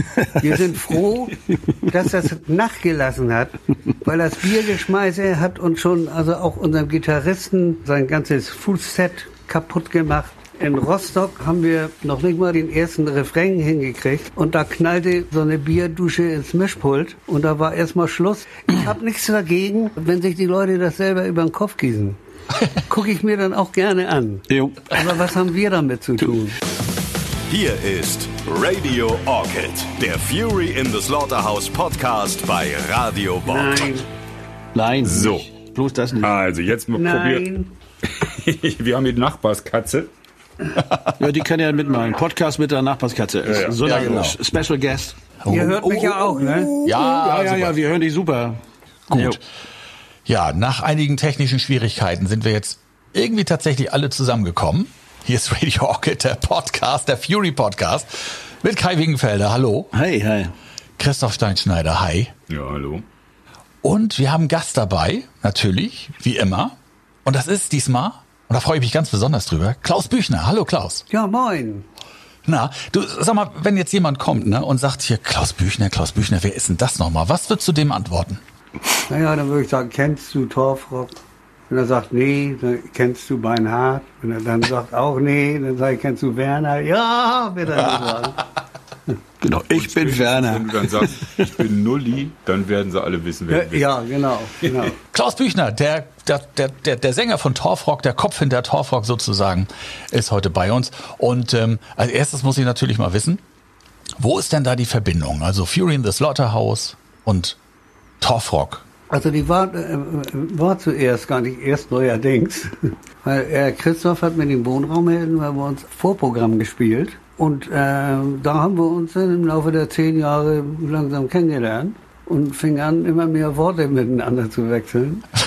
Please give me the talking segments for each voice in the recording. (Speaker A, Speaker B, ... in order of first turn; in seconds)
Speaker A: 0.3-22.2, 22.7-26.6, 33.5-34.1, 36.9-37.7, 45.5-46.7, 71.1-71.9, 79.1-81.2, 81.7-88.5, 93.5-95.0, 109.1-125.3
Speaker B: 24.5-25.2, 34.7-36.4, 41.2-45.2, 46.2-49.4, 59.9-60.5, 89.4-91.5
Speaker C: 27.5-34.0
Speaker D: 35.0-35.5, 36.2-37.5, 38.0-40.1, 43.5-44.0, 62.5-63.0, 89.6-94.0
Speaker E: 40.8-41.1, 43.8-44.4, 45.4-47.8, 49.1-49.4, 50.3-59.9, 61.0-62.3, 63.8-71.0, 72.5-78.4, 95.1-103.4, 104.2-107.6, 108.2-108.8